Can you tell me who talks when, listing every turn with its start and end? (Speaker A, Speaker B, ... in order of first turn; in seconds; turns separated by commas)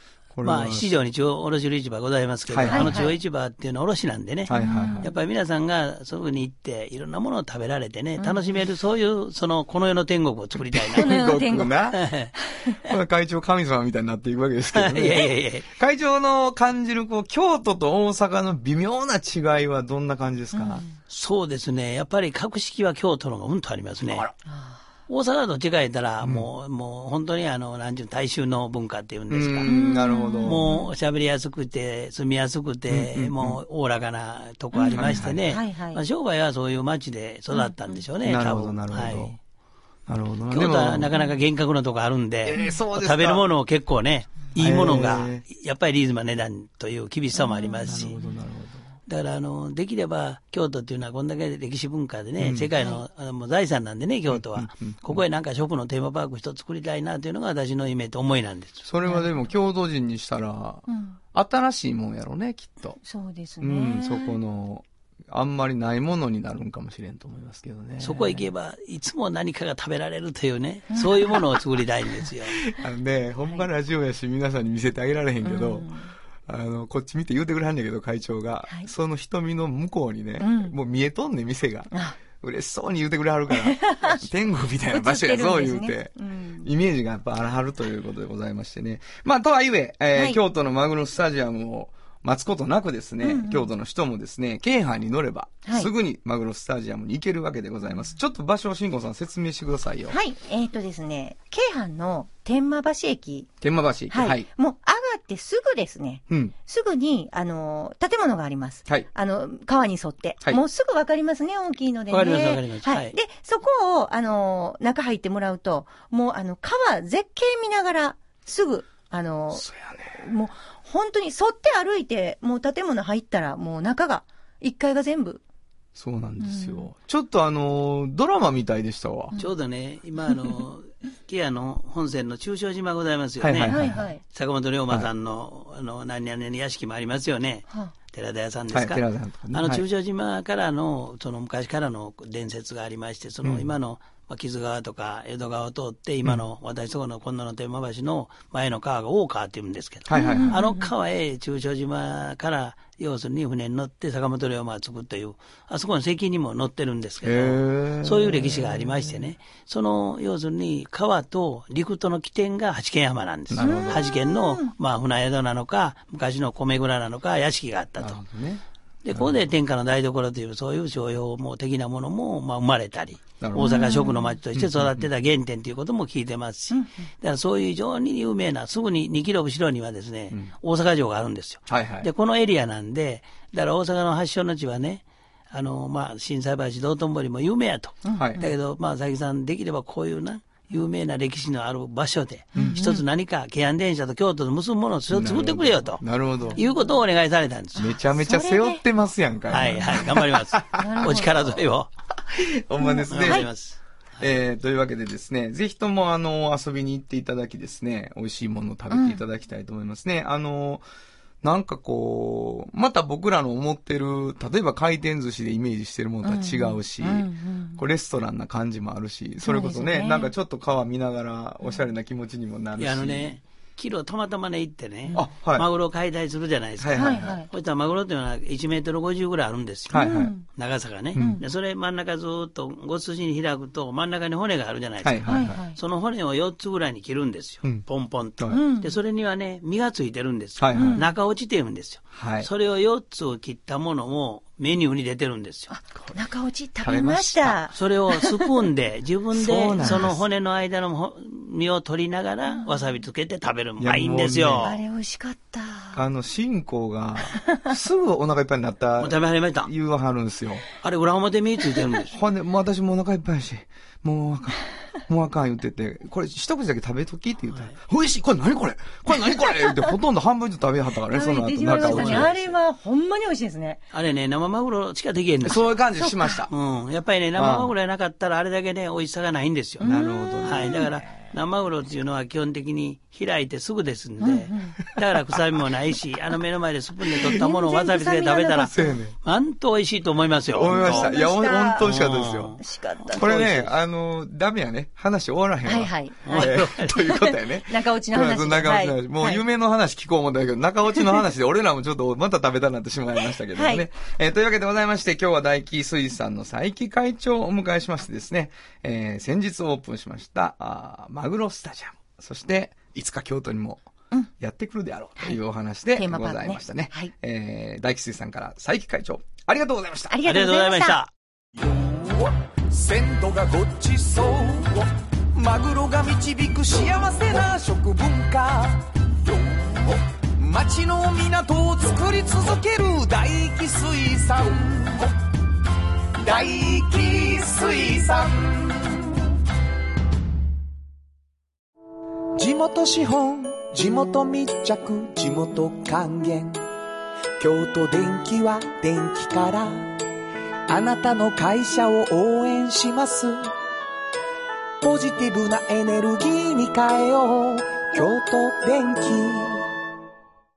Speaker A: 0.3-1.0, Speaker B: 0.4-11.1, Speaker A: 2.5-3.0, Speaker C: 2.7-3.2, Speaker A: 4.5-5.1, Speaker C: 4.5-5.1, Speaker C: 8.2-8.5, Speaker A: 10.6-12.0, Speaker C: 11.0-11.8, Speaker B: 11.9-12.3, Speaker C: 12.4-12.8, Speaker A: 12.7-20.9, Speaker B: 14.7-15.7, Speaker C: 20.5-20.9, Speaker B: 21.1-24.3, Speaker A: 24.1-24.3, Speaker C: 24.5-24.8, Speaker B: 25.1-29.8, Speaker A: 26.2-26.5, Speaker A: 29.3-30.6, Speaker C: 29.7-30.9, Speaker B: 30.4-39.4, Speaker A: 32.9-33.6, Speaker C: 34.7-36.0, Speaker A: 34.9-35.4, Speaker C: 37.5-38.0, Speaker A: 38.2-39.4, Speaker A: 40.1-41.1, Speaker B: 40.5-48.2, Speaker A: 42.5-43.4, Speaker A: 44.6-45.4, Speaker C: 47.4-48.0, Speaker A: 47.8-48.9, Speaker B: 49.1-58.9, Speaker A: 52.4-52.7, Speaker C: 52.8-53.0, Speaker A: 54.3-55.2, Speaker A: 58.9-63.0, Speaker C: 59.0-59.3, Speaker C: 60.9-61.2, Speaker C: 63.0-64.4, Speaker A: 63.6-68.5, Speaker B: 68.0-72.6, Speaker C: 70.9-71.4, Speaker A: 72.6-75.9, Speaker C: 75.4-76.1, Speaker A: 76.5-100.2, Speaker C: 80.4-80.7, Speaker C: 81.9-82.2, Speaker C: 83.5-84.2, Speaker C: 84.9-86.7, Speaker C: 90.1-90.4, Speaker C: 93.2-93.7, Speaker C: 95.7-95.9, Speaker C: 100.1-103.5, Speaker A: 103.6-104.5, Speaker C: 104.1-125.4, Speaker B: 112.1-113.1, Speaker A: 119.5-120.2, Speaker A: 126.0-129.3, Speaker C: 126.4-126.9, Speaker B: 129.4-168.2, Speaker A: 133.4-134.0, Speaker C: 133.7-134.2, Speaker A: 138.7-139.8, Speaker A: 143.4-143.7, Speaker A: 150.1-150.6, Speaker C: 150.1-150.9, Speaker A: 157.2-159.2, Speaker A: 163.5-164.1, Speaker C: 163.6-164.7, Speaker A: 168.0-169.4, Speaker B: 169.0-196.0, Speaker A: 173.4-173.8, Speaker C: 173.6-174.4, Speaker A: 174.6-175.1, Speaker C: 176.7-177.1, Speaker A: 181.7-182.1, Speaker C: 188.1-188.5, Speaker A: 188.2-188.4, Speaker C: 192.6-193.0, Speaker A: 195.1-196.6, Speaker C: 196.5-196.9, Speaker B: 196.6-197.9, Speaker A: 197.8-201.6, Speaker C: 197.8-198.8, Speaker B: 199.5-201.9, Speaker C: 199.7-200.0, Speaker C: 200.7-201.4, Speaker A: 202.3-203.5, Speaker C: 202.8-203.5, Speaker B: 203.1-203.8, Speaker A: 204.2-210.8, Speaker C: 208.9-209.2, Speaker A: 211.4-223.4, Speaker C: 216.2-217.8, Speaker C: 219.4-220.3, Speaker B: 222.8-245.7, Speaker A: 225.1-225.7, Speaker A: 226.8-227.4, Speaker C: 226.9-227.5, Speaker A: 229.9-230.3, Speaker C: 229.9-230.4, Speaker A: 231.2-231.4, Speaker C: 231.2-231.4, Speaker A: 235.0-235.6, Speaker C: 235.3-235.8, Speaker C: 238.5-238.9, Speaker A: 240.6-241.0, Speaker C: 240.7-241.1, Speaker A: 242.2-242.5, Speaker C: 245.7-248.5, Speaker A: 246.8-247.7, Speaker B: 247.7-254.8, Speaker A: 249.3-250.2, Speaker C: 249.8-250.1, Speaker A: 253.8-254.7, Speaker C: 254.6-256.0, Speaker A: 255.9-260.6, Speaker C: 257.4-257.7, Speaker B: 259.0-259.7, Speaker B: 260.8-262.1, Speaker A: 262.1-272.4, Speaker C: 271.1-273.8, Speaker B: 271.8-272.4, Speaker B: 273.9-275.6, Speaker A: 275.4-276.5, Speaker C: 276.0-276.4, Speaker B: 276.5-279.9, Speaker A: 277.4-277.7, Speaker C: 279.8-280.8, Speaker A: 279.8-281.1, Speaker B: 280.4-291.1, Speaker C: 284.2-284.8, Speaker C: 287.2-288.8, Speaker A: 288.6-289.2, Speaker A: 290.5-292.6, Speaker C: 290.7-291.9, Speaker B: 291.8-293.7, Speaker C: 292.6-293.7, Speaker A: 293.2-313.8, Speaker C: 295.7-299.4, Speaker B: 296.3-297.0, Speaker C: 303.5-303.9, Speaker A: 314.4-320.1, Speaker C: 316.0-317.1, Speaker C: 320.1-321.0, Speaker B: 320.2-321.1, Speaker D: 321.6-335.1, Speaker D: 336.2-339.2, Speaker D: 342.4-346.6, Speaker D: 347.4-350.0, Speaker D: 350.7-353.5, Speaker D: 354.8-359.7